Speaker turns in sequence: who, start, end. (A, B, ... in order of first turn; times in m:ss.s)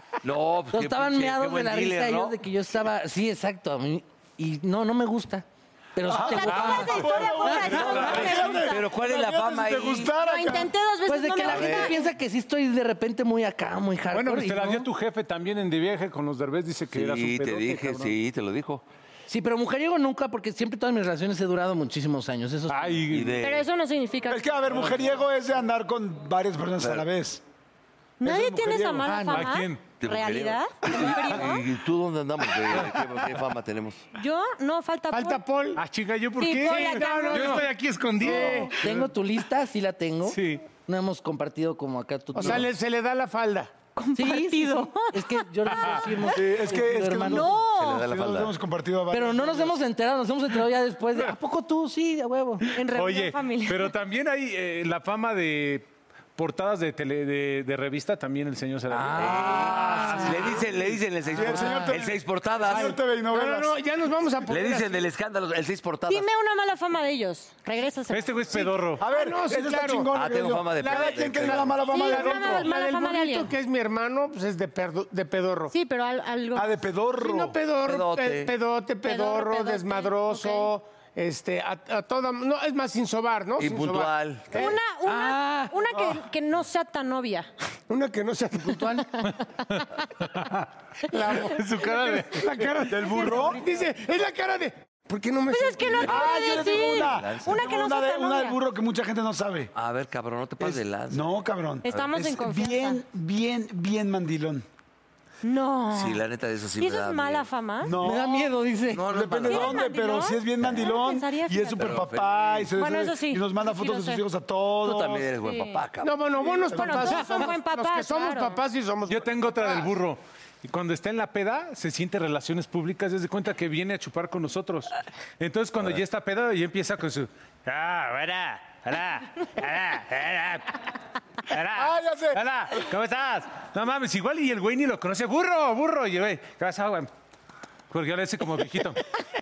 0:00.2-0:02.4 A
0:00.7-0:08.0 B
0:06.1-0:08.9 C
0:06.1-0:10.7 D
0:06.5-0:07.2 E
0:07.7-0:10.2 A
0:10.2-0:12.1 C
0:11.1-0:14.9 B
0:11.5-0:12.0 A
0:14.1-0:18.2 E
0:16.9-0:18.8 A
0:19.3-0:23.1 B
0:22.7-0:23.4 E
0:23.1-0:23.7 A
0:23.4-0:24.9 C
0:24.3-0:27.4 D
0:28.2-0:31.7 C
0:28.2-0:29.3 D
0:29.1-0:29.5 B
0:29.4-0:29.9 E
0:30.0-0:34.1 A
0:34.2-0:35.4 C
0:35.1-0:35.8 F
0:35.8-0:39.1 E
0:36.4-0:37.7 C
0:36.6-0:38.7 F
0:38.7-0:42.7 B
0:40.3-0:40.6 E
0:42.4-0:43.7 F
0:44.0-0:46.4 C
0:44.2-0:47.5 B
0:45.7-0:46.0 E
0:46.3-0:49.8 D
0:47.3-0:48.0 C
0:47.6-0:48.6 A
0:49.1-0:52.7 B
0:52.7-0:53.9 C
0:52.8-1:00.8 E
0:58.9-1:00.6 B
0:59.2-1:03.0 A
1:01.3-1:03.7 D
1:01.4-1:01.9 B
1:02.7-1:05.0 F
1:04.5-1:06.3 A
1:06.1-1:08.7 C
1:08.1-1:09.0 E
1:08.5-1:10.1 F
1:09.0-1:12.7 D
1:10.1-1:12.0 A
1:10.8-1:15.7 F
1:11.8-1:13.5 C
1:15.7-1:16.7 C
1:16.6-1:17.6 D
1:17.1-1:24.8 F
1:17.8-1:18.5 A
1:19.0-1:20.7 C
1:23.6-1:24.6 A
1:24.5-1:27.5 C
1:25.1-1:25.8 B
1:27.9-1:29.0 F
1:28.6-1:29.1 B
1:29.7-1:30.6 E
1:31.1-1:36.4 F
1:31.4-1:32.9 E
1:32.9-1:33.6 D
1:33.2-1:33.5 C
1:35.5-1:38.6 C
1:35.8-1:37.7 A
1:36.0-1:39.7 D
1:39.8-1:41.3 A
1:40.6-1:44.6 D
1:41.8-1:43.0 C
1:45.4-1:46.2 C
1:45.9-1:47.5 A
1:46.8-1:48.1 C
1:47.8-1:48.5 D
1:48.0-1:49.1 B
1:48.9-1:49.9 A
1:49.1-1:55.3 D
1:49.4-1:52.1 C
1:50.6-1:51.0 A
1:51.8-1:52.7 A
1:52.8-1:54.2 C
1:54.8-1:56.6 A
1:55.4-1:55.8 C
1:56.0-1:59.9 F
1:56.7-1:58.6 C
1:56.7-1:57.2 D
1:59.1-2:10.9 E
2:11.5-2:17.1 E
2:11.7-2:12.5 D
2:17.9-2:19.0 E